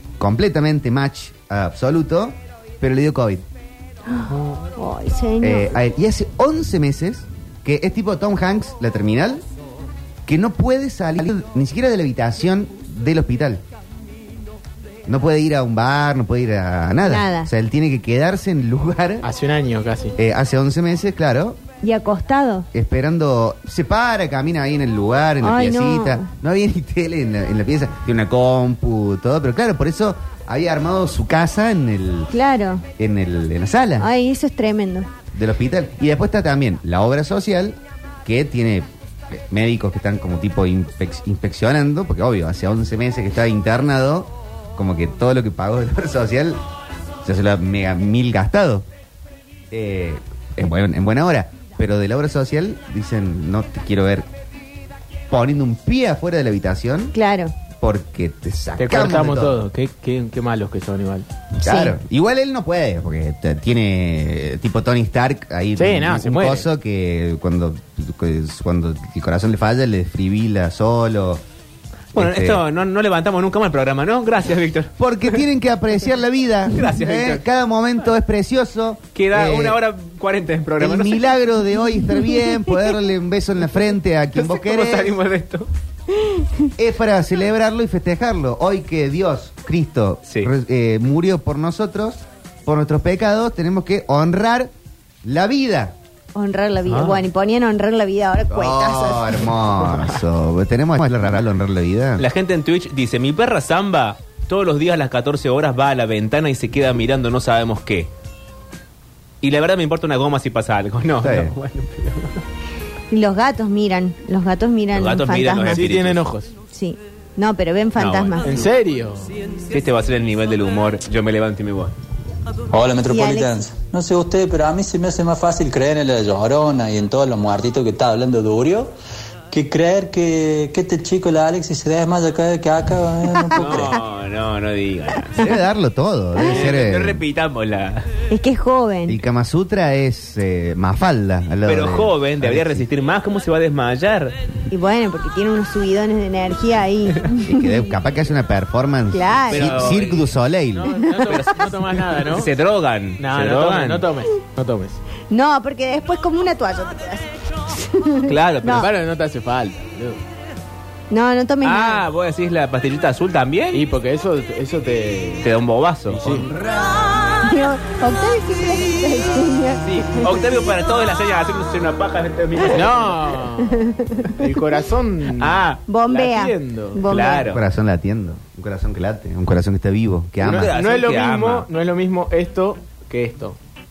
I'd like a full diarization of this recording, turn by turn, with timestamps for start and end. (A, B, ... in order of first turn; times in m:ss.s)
0:00.2-0:03.4 A
0:04.1-0:05.8 B
0:05.4-0:09.4 A
0:10.3-0:13.6 A
0:15.0-0:19.3 A
0:17.0-0:17.5 B
0:19.2-0:20.1 C
0:20.2-0:21.6 A
0:21.8-0:22.7 B
0:22.7-0:32.3 A
0:25.4-0:26.3 B
0:32.3-0:32.8 B
0:33.0-0:34.1 A
0:34.0-0:35.1 B
0:35.3-0:46.6 A
0:47.2-0:48.9 A
0:49.7-0:54.3 A
0:55.3-0:57.1 A
0:57.1-0:57.5 B
0:57.8-0:59.6 A
0:58.8-1:01.3 C
1:01.6-1:01.9 B
1:01.6-1:11.4 A
1:05.8-1:06.6 C
1:12.1-1:15.4 D
1:12.1-1:12.6 A
1:15.0-1:19.8 A
1:16.7-1:17.4 D
1:19.1-1:21.3 D
1:20.8-1:25.2 A
1:24.4-1:25.7 D
1:26.1-1:26.4 B
1:26.8-1:34.7 A
1:35.2-1:35.9 A
1:36.4-1:39.4 B
1:36.9-1:37.2 D
1:38.5-1:42.2 A
1:39.8-1:40.2 D
1:42.2-1:48.1 D
1:49.4-1:52.4 D
1:51.2-1:51.5 A
1:53.1-1:55.9 B
1:54.9-1:56.2 D
1:55.7-1:56.5 C
1:56.7-1:58.6 B
1:58.0-1:58.4 D
1:58.4-1:59.4 C
1:59.7-2:01.9 D
2:02.7-2:08.9 E
2:03.1-2:03.6 B
2:09.5-2:13.9 E
2:13.5-2:13.9 B
2:13.6-2:15.4 D
2:15.4-2:17.2 A
2:16.4-2:18.1 D
2:18.3-2:19.2 B
2:19.1-2:22.9 A
2:21.6-2:24.4 D
2:24.7-2:27.7 B
2:27.4-2:30.9 A
2:29.1-2:29.9 B
2:29.5-2:30.3 D
2:30.7-2:32.5 C
2:31.3-2:34.1 D
2:33.2-2:35.0 C
2:35.3-2:38.9 B
2:38.2-2:38.9 D
2:38.6-2:40.2 C
2:41.1-2:42.0 B
2:41.6-2:43.8 D
2:43.7-2:45.5 C
2:45.4-2:46.5 D
2:46.1-2:46.5 C
2:47.4-2:50.2 B
2:49.9-2:53.3 D
2:52.7-2:55.6 C
2:53.7-2:54.4 B
2:55.4-2:55.8 D
2:55.9-2:57.5 B
2:56.1-2:57.0 C
2:57.1-2:57.6 D
2:57.5-3:00.7 A
3:00.4-3:01.7 D
3:00.4-3:03.6 C